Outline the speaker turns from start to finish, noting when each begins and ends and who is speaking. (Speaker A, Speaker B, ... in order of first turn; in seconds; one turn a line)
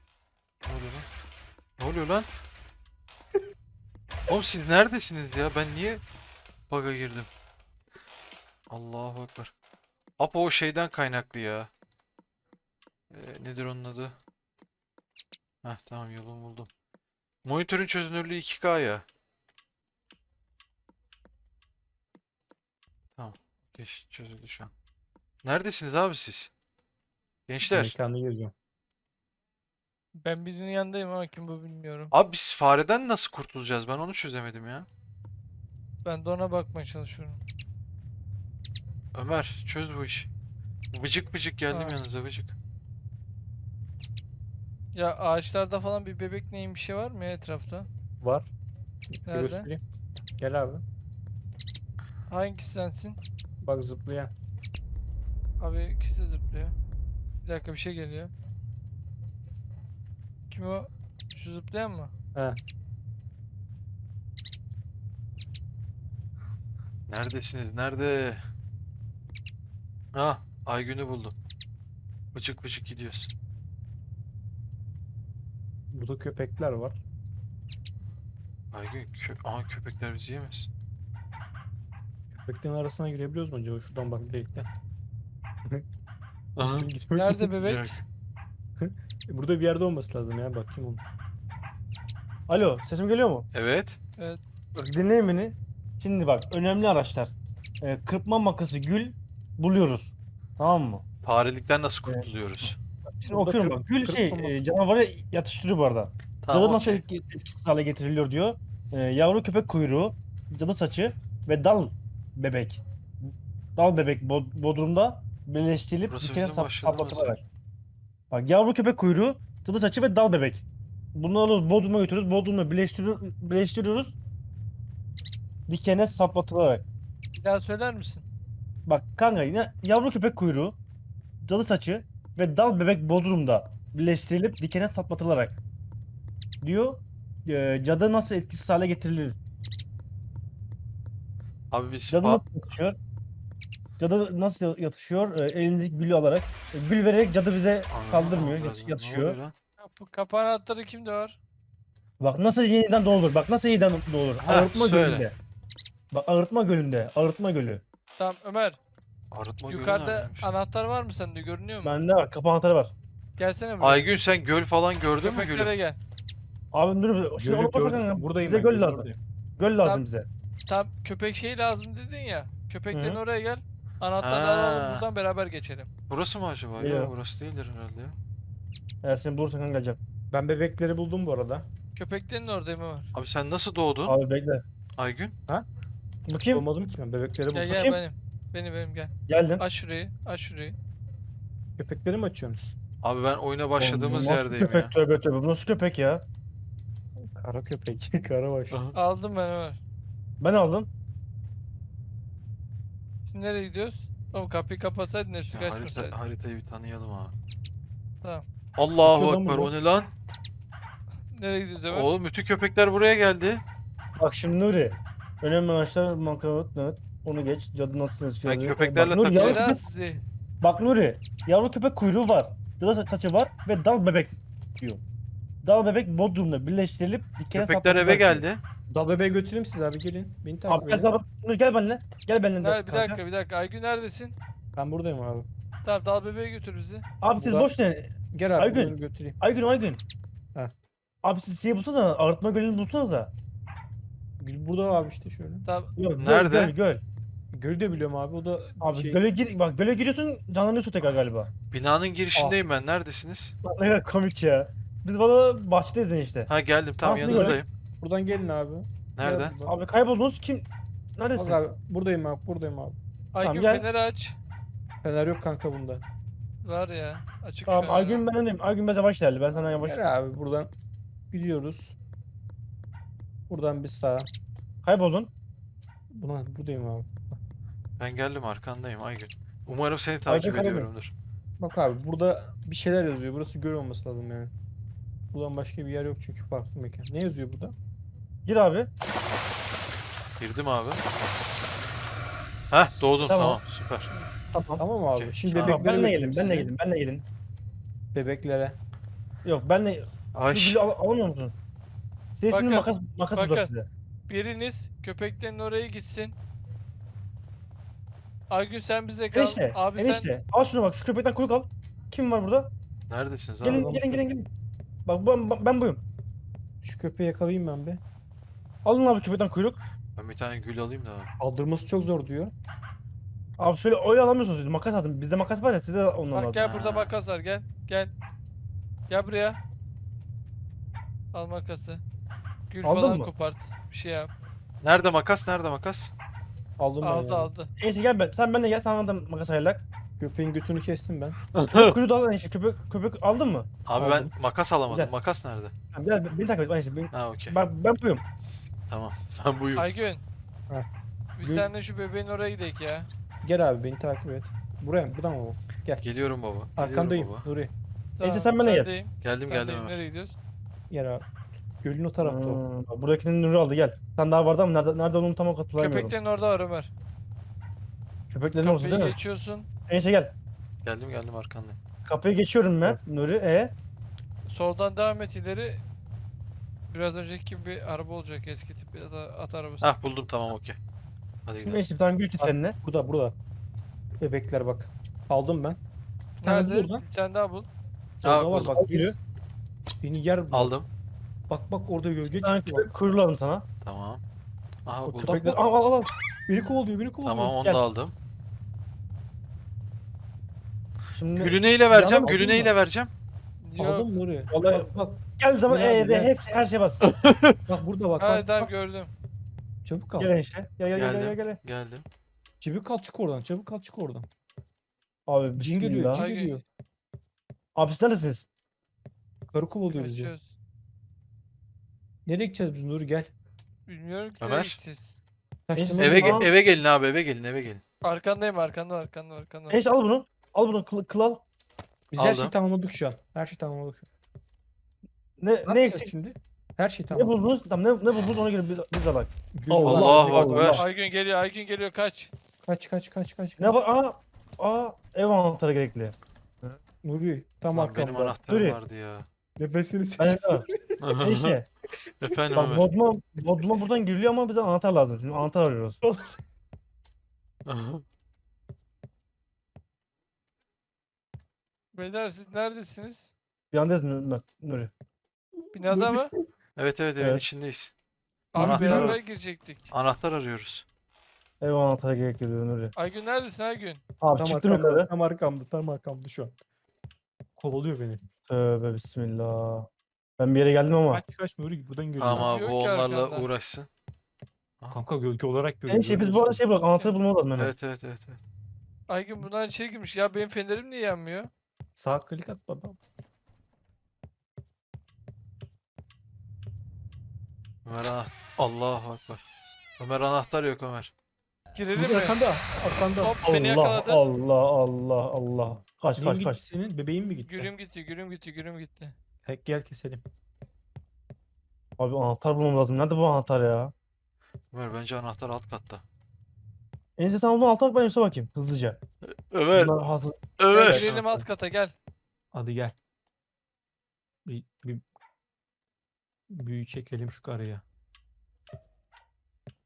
Speaker A: 0.6-1.1
Speaker A: 1.8-2.3
Speaker A: 4.3-6.0
Speaker A: 6.7-7.3
Speaker A: 8.7-9.5
Speaker A: 10.2-11.7
Speaker A: 13.1-14.2
Speaker A: 15.6-16.7
Speaker A: 17.4-19.0
Speaker A: 23.2-24.7
Speaker A: 25.4-26.5
Speaker A: 27.5-27.9
Speaker B: 27.7-28.5
Speaker C: 30.2-32.1
Speaker A: 32.1-34.9
Speaker C: 36.0-37.4
Speaker A: 39.1-40.3
Speaker A: 40.9-42.5
Speaker C: 41.7-42.0
Speaker C: 44.9-47.9
Speaker B: 48.2-48.5
Speaker B: 49.2-49.8
Speaker C: 49.3-49.7
Speaker B: 50.4-50.8
Speaker C: 52.3-53.2
Speaker B: 53.6-54.3
Speaker C: 55.6-56.7
Speaker C: 57.4-58.3
Speaker C: 60.5-62.1
Speaker A: 67.1-68.4
Speaker A: 70.1-71.3
Speaker A: 72.3-73.3
Speaker B: 75.9-77.0
Speaker A: 78.7-80.7
Speaker B: 82.3-84.7
Speaker A: 86.5-86.9
Speaker B: 86.6-87.5
Speaker C: 87.1-88.0
Speaker A: 87.6-88.0
Speaker B: 88.8-91.0
Speaker D: 92.5-93.5
Speaker A: 93.5-94.0
Speaker D: 94.7-101.0
Speaker A: 101.2-102.8
Speaker D: 103.2-117.4
Speaker B: 103.2-104.5
Speaker A: 106.4-107.0
Speaker A: 116.1-117.4
Speaker D: 118.3-120.6
Speaker D: 121.1-124.1
Speaker D: 125.7-126.8
Speaker C: 127.4-128.2
Speaker D: 128.8-130.7
Speaker D: 131.4-135.6
Speaker D: 136.6-139.4
Speaker A: 141.7-142.4
Speaker D: 142.1-142.9
Speaker D: 144.0-149.4
Speaker A: 147.9-149.5
Speaker C: 149.8-151.4
Speaker D: 152.2-155.3
Speaker A: 154.4-155.3
Speaker D: 156.1-157.8
Speaker C: 158.2-158.8
Speaker A: 159.3-160.5
Speaker C: 159.7-162.0
Speaker D: 161.8-162.9
Speaker C: 163.4-164.1
Speaker A: 163.8-165.7
Speaker C: 165.2-166.0
Speaker D: 166.7-170.3
Speaker B: 167.4-169.2
Speaker C: 170.7-175.9
Speaker D: 172.9-173.2
Speaker A: 174.2-175.0
Speaker A: 176.1-178.2
Speaker D: 176.8-177.1
Speaker D: 179.0-180.0
Speaker B: 180.3-181.7
Speaker C: 181.9-183.1
Speaker A: 183.1-184.2
Speaker D: 184.1-184.6
Speaker A: 185.0-185.3
Speaker D: 186.3-186.6
Speaker B: 186.5-187.9
Speaker C: 187.5-190.8
Speaker D: 187.7-188.0
Speaker D: 189.3-189.6
Speaker B: 191.8-192.7
Speaker A: 193.0-194.9
Speaker D: 193.8-196.2
Speaker B: 197.2-198.8
Speaker A: 198.7-199.0
Speaker C: 198.9-199.8
Speaker D: 200.4-200.9
Speaker C: 203.3-206.2
Speaker A: 205.4-207.3
Speaker A: 208.8-210.1
Speaker D: 209.0-209.7
Speaker C: 211.3-212.1
Speaker A: 211.9-213.6
Speaker D: 214.2-219.8
Speaker A: 218.4-219.8
Speaker C: 219.3-220.2
Speaker D: 220.6-225.0
Speaker D: 225.6-228.4
Speaker A: 227.5-228.6
Speaker B: 228.9-231.1
Speaker D: 230.7-233.2
Speaker C: 232.6-234.3
Speaker B: 234.8-235.5
Speaker C: 235.8-237.0
Speaker D: 237.2-240.0
Speaker B: 237.3-237.7
Speaker B: 238.3-239.4
Speaker D: 241.2-243.3
Speaker B: 244.4-245.7
Speaker C: 245.6-245.9
Speaker D: 245.9-247.0
Speaker A: 246.2-246.7
Speaker B: 247.5-249.2
Speaker D: 248.8-251.5
Speaker A: 251.7-253.5
Speaker D: 253.6-256.5
Speaker A: 256.5-257.7
Speaker D: 257.0-257.6
Speaker B: 257.2-259.7
Speaker A: 259.1-259.5
Speaker D: 259.6-261.6
Speaker B: 261.3-263.0
Speaker C: 263.3-264.4
Speaker D: 263.4-263.9
Speaker B: 265.0-266.0
Speaker C: 266.6-268.3
Speaker D: 267.7-270.0
Speaker B: 269.6-270.7
Speaker B: 271.3-271.9
Speaker B: 273.5-274.3
Speaker D: 274.8-275.3
Speaker B: 276.1-277.1
Speaker A: 278.0-281.1
Speaker D: 280.3-280.9
Speaker B: 281.6-284.5
Speaker B: 285.3-287.7
Speaker D: 288.4-288.9
Speaker A: 290.4-291.0
Speaker A: 292.7-294.1
Speaker D: 293.2-293.6
Speaker D: 294.5-294.8
Speaker B: 294.8-296.7
Speaker A: 295.1-295.8
Speaker D: 295.6-297.2
Speaker B: 298.1-298.8
Speaker D: 299.4-301.5
Speaker A: 300.3-300.8
Speaker D: 302.4-303.9
Speaker C: 302.5-303.7
Speaker C: 304.3-306.4
Speaker C: 308.5-310.3
Speaker D: 309.3-312.7
Speaker A: 313.1-313.9
Speaker D: 313.6-314.5
Speaker B: 313.7-314.2
Speaker D: 315.1-316.0
Speaker B: 316.8-318.0
Speaker D: 318.8-319.8
Speaker A: 320.1-321.3
Speaker B: 321.4-322.5
Speaker D: 323.6-326.7
Speaker C: 326.3-328.1
Speaker A: 326.6-327.1
Speaker C: 329.1-329.6
Speaker C: 331.3-332.0
Speaker C: 332.7-334.3
Speaker D: 332.8-333.3
Speaker A: 334.8-336.1
Speaker B: 336.8-337.5
Speaker C: 337.0-337.7
Speaker D: 337.8-339.8
Speaker B: 340.2-341.4
Speaker A: 341.5-341.9
Speaker D: 341.7-343.7
Speaker A: 343.9-345.7
Speaker B: 344.0-344.3
Speaker D: 345.9-348.2
Speaker A: 347.1-347.6
Speaker A: 348.9-349.9
Speaker C: 349.8-350.2
Speaker C: 351.4-353.1
Speaker B: 351.4-351.7
Speaker B: 353.4-356.0
Speaker A: 356.0-357.5
Speaker B: 356.8-357.7
Speaker C: 358.1-360.4
Speaker D: 358.2-358.9
Speaker A: 359.2-359.9
Speaker B: 360.9-361.2
Speaker B: 361.8-362.6
Speaker D: 362.2-366.1
Speaker C: 365.8-366.9
Speaker D: 368.3-369.2
Speaker C: 368.6-369.7
Speaker D: 369.9-370.3
Speaker A: 370.8-371.8
Speaker D: 372.0-373.7
Speaker C: 374.5-375.8
Speaker C: 376.9-379.9
Speaker A: 379.8-380.8
Speaker A: 381.4-381.8
Speaker D: 381.6-382.8
Speaker B: 382.4-383.4
Speaker B: 384.2-385.8
Speaker C: 386.4-387.7
Speaker B: 386.4-387.0
Speaker A: 388.2-388.7
Speaker D: 388.2-389.2
Speaker B: 388.2-389.1
Speaker B: 390.0-390.7
Speaker A: 390.5-390.9
Speaker B: 391.5-392.9
Speaker D: 392.4-393.6
Speaker A: 393.8-394.2
Speaker A: 394.9-395.4
Speaker B: 395.1-395.6
Speaker D: 395.2-396.1
Speaker B: 396.5-397.6
Speaker A: 397.2-398.1
Speaker D: 401.1-402.4
Speaker A: 401.4-403.1
Speaker B: 401.9-402.7
Speaker C: 403.6-404.1
Speaker B: 403.8-406.4
Speaker D: 404.5-407.0
Speaker A: 407.0-407.6
Speaker B: 407.7-408.7
Speaker C: 408.2-409.1
Speaker B: 409.8-410.3
Speaker D: 410.2-411.6
Speaker A: 410.9-412.0
Speaker B: 412.6-414.3
Speaker D: 415.3-416.2
Speaker B: 415.6-416.6
Speaker C: 416.1-416.6
Speaker D: 417.7-418.4
Speaker B: 419.5-420.3
Speaker C: 419.9-420.5
Speaker B: 422.2-423.3
Speaker C: 423.9-425.2
Speaker A: 424.4-424.8
Speaker B: 425.7-426.5
Speaker D: 425.7-426.5
Speaker A: 426.0-427.8
Speaker C: 428.0-429.8
Speaker D: 429.7-431.4
Speaker B: 432.1-434.1
Speaker A: 432.2-432.5
Speaker D: 435.4-436.1
Speaker B: 435.7-437.3
Speaker D: 437.1-440.9
Speaker B: 439.5-440.8
Speaker A: 439.8-440.8
Speaker C: 440.7-442.3
Speaker B: 442.6-443.7
Speaker D: 443.6-446.8
Speaker B: 447.0-448.4
Speaker A: 447.7-449.3
Speaker D: 448.5-448.8
Speaker B: 449.6-451.1
Speaker D: 450.2-450.6
Speaker A: 451.0-451.6
Speaker D: 451.2-451.6
Speaker A: 452.2-452.9
Speaker D: 452.5-456.0
Speaker B: 456.0-456.3
Speaker A: 457.6-458.0
Speaker C: 461.9-463.3
Speaker D: 463.7-464.9
Speaker C: 465.7-466.3
Speaker B: 465.9-466.3
Speaker A: 466.8-467.9
Speaker D: 467.2-467.4
Speaker C: 468.5-469.9
Speaker A: 468.5-469.2
Speaker B: 468.6-469.2
Speaker A: 469.9-470.8
Speaker D: 471.6-472.9
Speaker C: 472.9-474.0
Speaker D: 474.2-475.1
Speaker B: 474.4-476.5
Speaker B: 477.6-478.2
Speaker D: 478.5-481.2
Speaker B: 481.1-482.5
Speaker A: 482.2-483.9
Speaker C: 482.4-483.5
Speaker B: 484.9-486.6
Speaker D: 485.9-487.7
Speaker A: 487.6-488.4
Speaker C: 489.1-491.5
Speaker B: 491.9-493.0
Speaker A: 497.8-499.4
Speaker A: 500.0-501.1
Speaker C: 501.7-502.4
Speaker B: 501.9-503.4
Speaker C: 503.2-504.2
Speaker D: 503.4-506.6
Speaker B: 506.1-507.7
Speaker C: 507.4-509.1
Speaker B: 509.4-510.2
Speaker D: 512.0-513.9
Speaker A: 514.7-516.0
Speaker D: 517.2-519.0
Speaker A: 519.2-519.9
Speaker D: 519.7-521.0
Speaker A: 520.6-521.3
Speaker C: 520.7-521.9
Speaker B: 522.5-523.0
Speaker B: 524.4-525.0
Speaker B: 526.5-527.8